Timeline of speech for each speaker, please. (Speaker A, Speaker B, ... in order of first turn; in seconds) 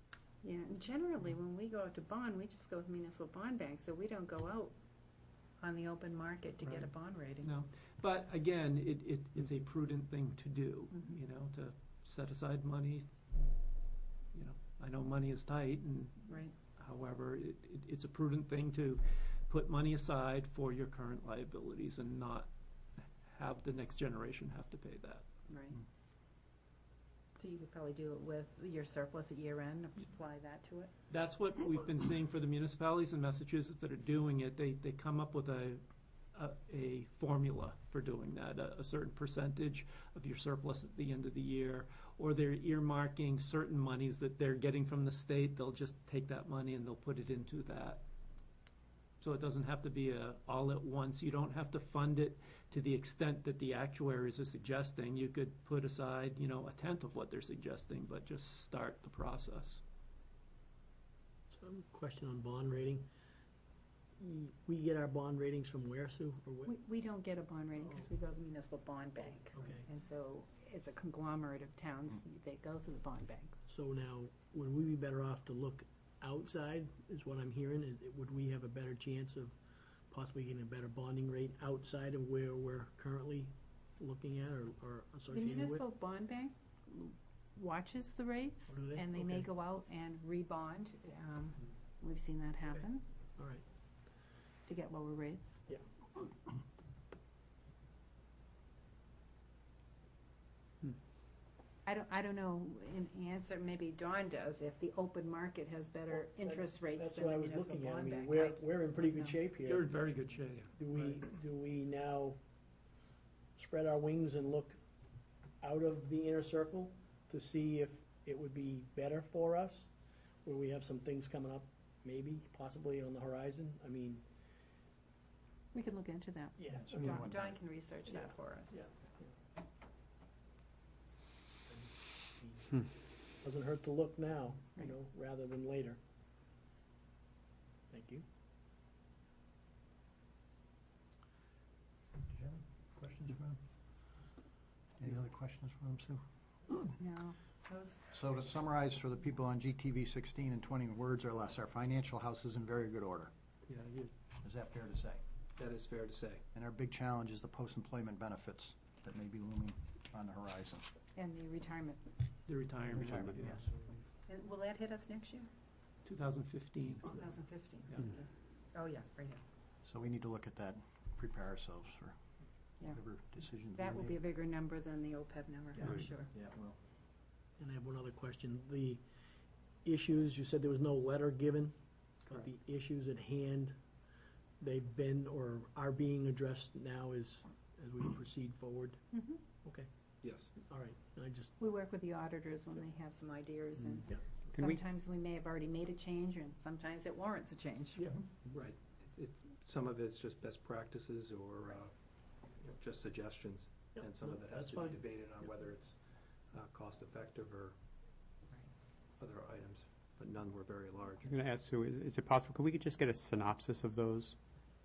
Speaker A: 0.4-4.7, 5.6-7.6, 10.9-11.2, 16.3-16.5, 25.5-25.8, 27.4-30.9, 66.7-73.5, 85.3-93.0, 94.7-95.7, 101.8-109.4, 125.7-128.8, 146.9-148.1, 161.1-162.1, 164.3-165.5, 167.0-169.4, 173.7-176.3, 189.1-189.4, 191.6-198.0
Speaker B: 6.6-13.2, 14.3-22.5, 23.2-25.2, 31.1-35.8, 36.3-48.0, 49.2-59.8, 109.7-111.1, 153.7-154.1, 162.4-163.8, 166.0-167.3
Speaker C: 61.5-63.1, 64.2-66.8, 69.5-69.9, 73.7-79.5, 80.1-85.8, 88.7-89.5, 93.4-93.6, 106.2-110.0, 110.7-112.4, 113.5-114.8, 115.6-119.9, 120.4-124.2, 126.6-127.0, 128.1-129.3, 131.7-132.7, 133.4-136.0, 137.9-138.2, 177.6-179.0, 179.8-183.8, 184.6-189.0, 189.5-189.9, 190.6-191.5, 203.9-205.0
Speaker D: 126.8-127.7, 142.3-143.6, 145.0-146.9, 148.1-153.3, 154.4-155.2, 156.5-160.9, 162.8-163.7, 169.8-172.1, 172.8-174.2, 175.7-176.8
Speaker E: 155.6-156.4, 198.7-201.9, 202.6-205.9, 206.5-207.6, 209.2-211.2
Speaker F: 194.5-194.8, 211.2-214.3